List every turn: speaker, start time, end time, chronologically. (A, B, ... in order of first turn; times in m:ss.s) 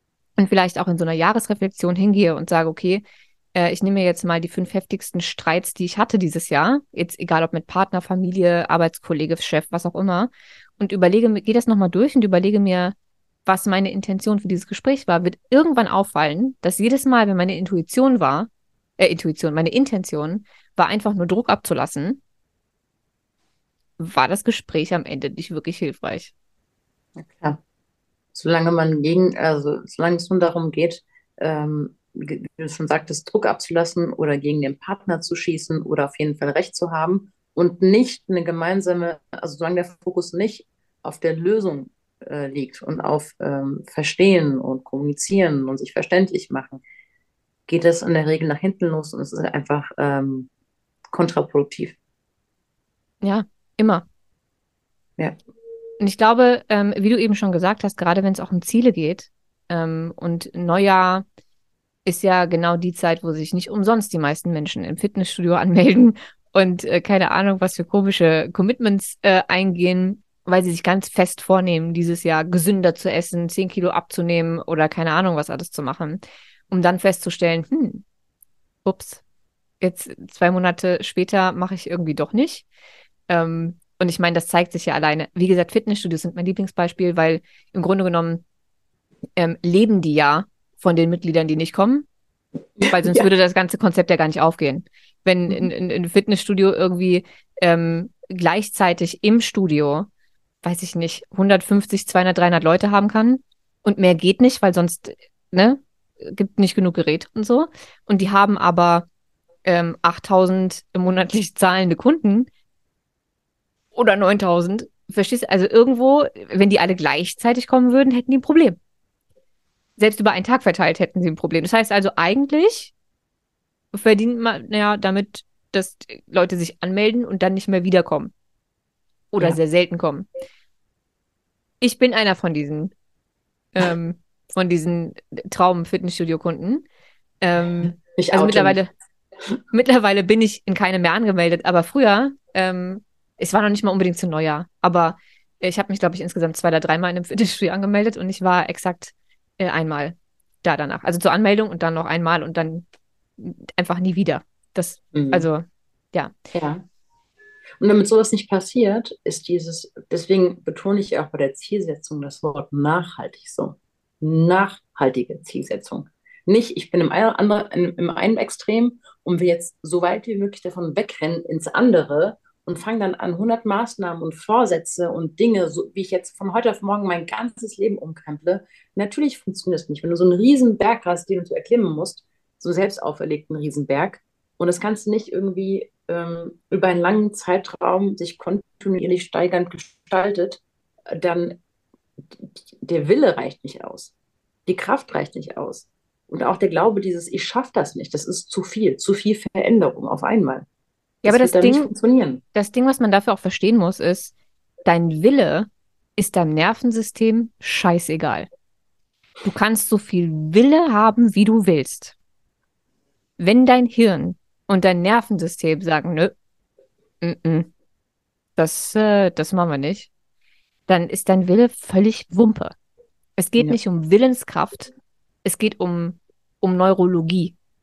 0:00.4-0:13.0 A
0:13.5-0:22.2 A
0:24.0-0:26.3 A
0:27.2-0:27.6 B
0:28.4-0:46.8 B
0:47.7-0:50.5 B
0:51.1-0:52.0 B
0:53.2-0:54.1 A
0:56.0-1:01.2 A
1:02.0-1:18.0 A
1:18.8-1:19.2 A
1:19.8-1:22.6 A
1:23.3-1:28.4 A
1:29.4-1:32.1 A
1:32.8-1:33.3 B
1:32.9-1:40.1 A
1:40.6-1:49.1 A
1:49.6-1:52.5 A
1:53.9-1:58.8 A
2:00.0-2:02.9 A
2:03.9-2:08.3 A
2:09.3-2:10.3 A
2:11.8-2:12.9 A
2:13.8-2:16.8 A
2:17.4-2:18.9 A
2:17.8-2:18.8 B
2:19.7-2:32.9 A
2:33.4-2:36.3 A
2:35.1-2:35.5 B
2:36.5-2:36.8 B
2:37.8-3:11.6 B
3:12.4-3:14.1 B
3:14.7-3:20.7 B
3:21.2-3:21.9 A
3:21.2-3:22.4 B
3:22.6-3:24.3 A
3:24.8-3:28.5 A
3:29.4-3:32.2 A
3:33.4-3:36.3 A
3:37.2-3:37.7 A
3:38.6-3:40.1 A
3:40.9-3:42.8 A
3:43.4-3:44.9 A
3:45.4-3:47.6 A